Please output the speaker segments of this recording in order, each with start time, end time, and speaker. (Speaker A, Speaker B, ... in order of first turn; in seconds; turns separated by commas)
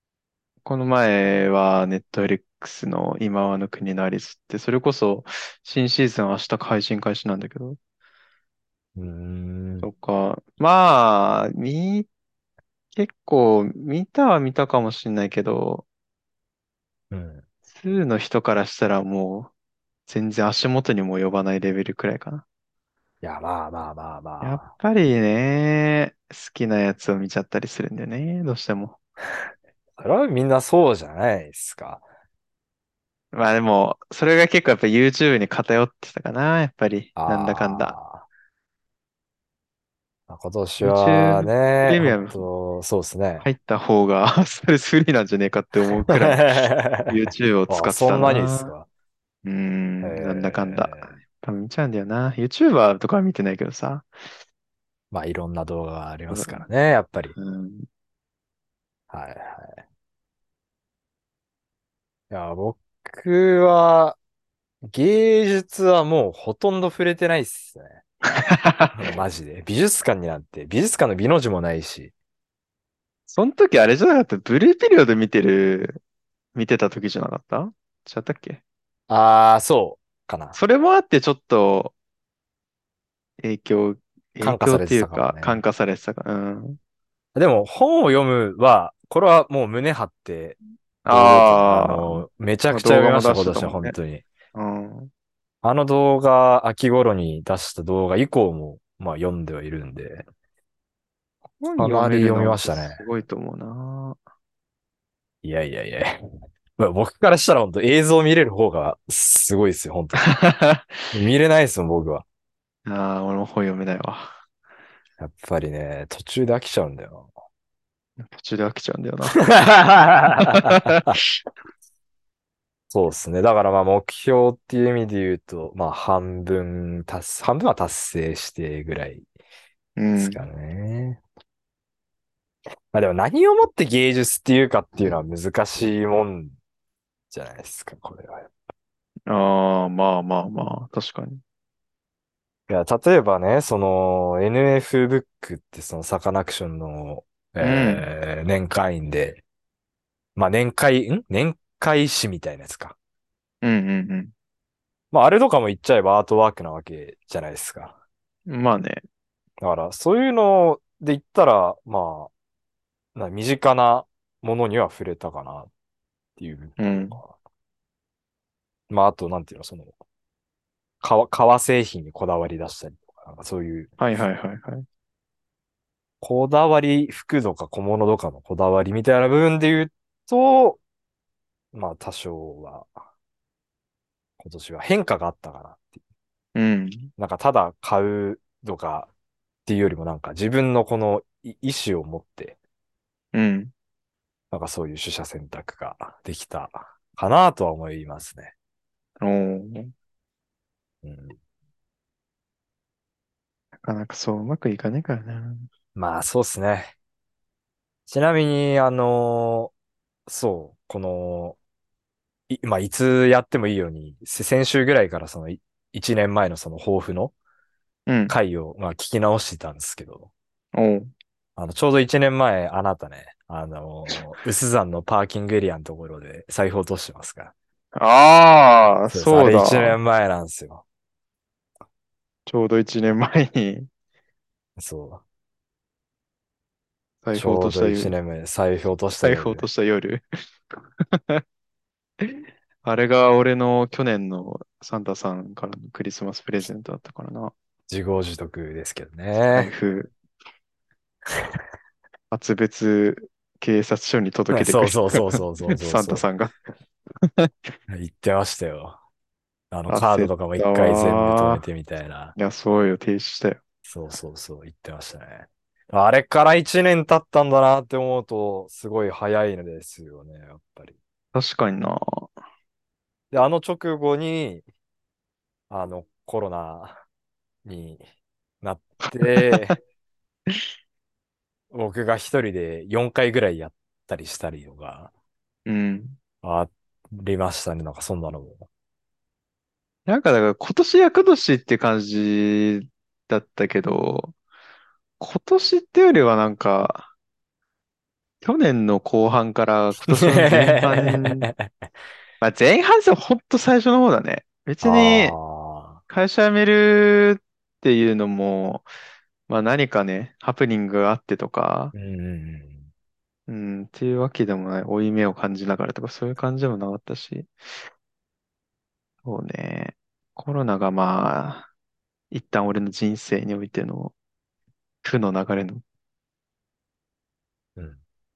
Speaker A: 0.7-7.8, Speaker B: 9.0-9.9, Speaker A: 9.8-12.1, Speaker A: 12.9-15.9, Speaker B: 17.1-17.4, Speaker A: 17.8-19.5, Speaker A: 20.1-22.4, Speaker B: 23.2-24.7, Speaker A: 24.4-29.0, Speaker B: 30.0-32.0, Speaker A: 33.3-38.0, Speaker B: 37.2-38.3, Speaker B: 40.3-43.5, Speaker A: 40.8-42.4, Speaker A: 43.4-46.6, Speaker B: 46.1-48.9, Speaker A: 47.1-48.7, Speaker A: 49.4-54.1, Speaker B: 50.0-51.1, Speaker B: 55.1-57.4, Speaker A: 56.3-56.6, Speaker A: 57.4-57.9, Speaker B: 59.1-59.8, Speaker B: 62.3-64.2, Speaker B: 64.8-68.0, Speaker A: 68.3-69.0, Speaker B: 69.0-72.1, Speaker A: 73.3-76.0, Speaker A: 76.5-78.6, Speaker B: 79.1-80.6, Speaker A: 80.5-81.9, Speaker A: 83.4-86.8, Speaker B: 84.4-85.6, Speaker B: 87.3-94.2, Speaker A: 91.1-94.0, Speaker A: 94.5-95.1, Speaker B: 95.6-100.3, Speaker A: 101.6-104.2, Speaker B: 101.8-103.0, Speaker B: 105.4-106.2, Speaker B: 106.8-110.3, Speaker A: 110.2-111.0, Speaker B: 111.1-112.2, Speaker A: 112.9-114.3, Speaker B: 115.2-117.3, Speaker A: 118.2-119.4, Speaker B: 119.4-121.1, Speaker A: 120.3-121.2, Speaker B: 122.9-129.2, Speaker A: 130.0-130.4, Speaker B: 130.2-131.2, Speaker B: 132.9-136.5, Speaker B: 137.3-138.5, Speaker A: 139.3-141.4, Speaker B: 142.7-149.4, Speaker A: 147.6-148.1, Speaker B: 150.4-153.0, Speaker A: 153.6-154.3, Speaker B: 155.1-157.9, Speaker A: 158.5-159.0, Speaker B: 159.6-162.3, Speaker B: 163.2-165.7, Speaker B: 166.4-167.3, Speaker A: 166.8-167.2, Speaker B: 168.9-169.9, Speaker B: 171.0-173.9, Speaker A: 174.0-174.8, Speaker B: 176.2-180.8, Speaker B: 181.7-182.9, Speaker B: 184.4-186.0, Speaker A: 186.6-187.1, Speaker B: 187.2-189.1, Speaker B: 189.7-192.6, Speaker A: 193.3-193.7, Speaker B: 194.5-198.5, Speaker A: 199.2-199.9, Speaker B: 201.0-201.4, Speaker A: 203.8-205.7, Speaker B: 205.9-206.9, Speaker B: 208.1-209.7, Speaker B: 210.3-211.6, Speaker B: 212.5-217.3, Speaker A: 218.1-218.4, Speaker B: 218.3-220.3, Speaker A: 220.7-221.1, Speaker B: 221.6-227.5, Speaker A: 228.0-230.0, Speaker B: 229.1-230.8, Speaker A: 232.5-233.9, Speaker B: 234.8-235.2, Speaker A: 237.2-238.2, Speaker B: 237.3-239.7, Speaker A: 239.2-240.2, Speaker A: 241.1-241.4, Speaker A: 242.2-247.5, Speaker B: 247.9-249.7, Speaker A: 249.5-250.1, Speaker B: 251.3-251.6, Speaker A: 252.3-256.5, Speaker B: 254.5-256.2, Speaker B: 257.9-259.0, Speaker B: 259.7-262.4, Speaker A: 259.9-261.6, Speaker A: 262.4-263.6, Speaker B: 263.9-271.0, Speaker A: 271.3-272.0, Speaker B: 273.3-274.6, Speaker B: 275.7-277.0, Speaker B: 277.6-278.0, Speaker B: 278.6-279.8, Speaker A: 279.1-279.7, Speaker B: 281.7-285.1, Speaker A: 285.7-286.2, Speaker B: 286.4-288.7, Speaker A: 290.1-294.3, Speaker A: 295.2-297.1, Speaker A: 298.4-301.5, Speaker B: 300.0-301.7, Speaker A: 302.4-305.4, Speaker B: 304.8-306.0, Speaker A: 306.1-308.9, Speaker A: 309.5-311.9, Speaker B: 311.9-312.9, Speaker A: 313.5-317.5, Speaker A: 319.2-321.7, Speaker A: 322.3-324.1, Speaker A: 325.0-325.8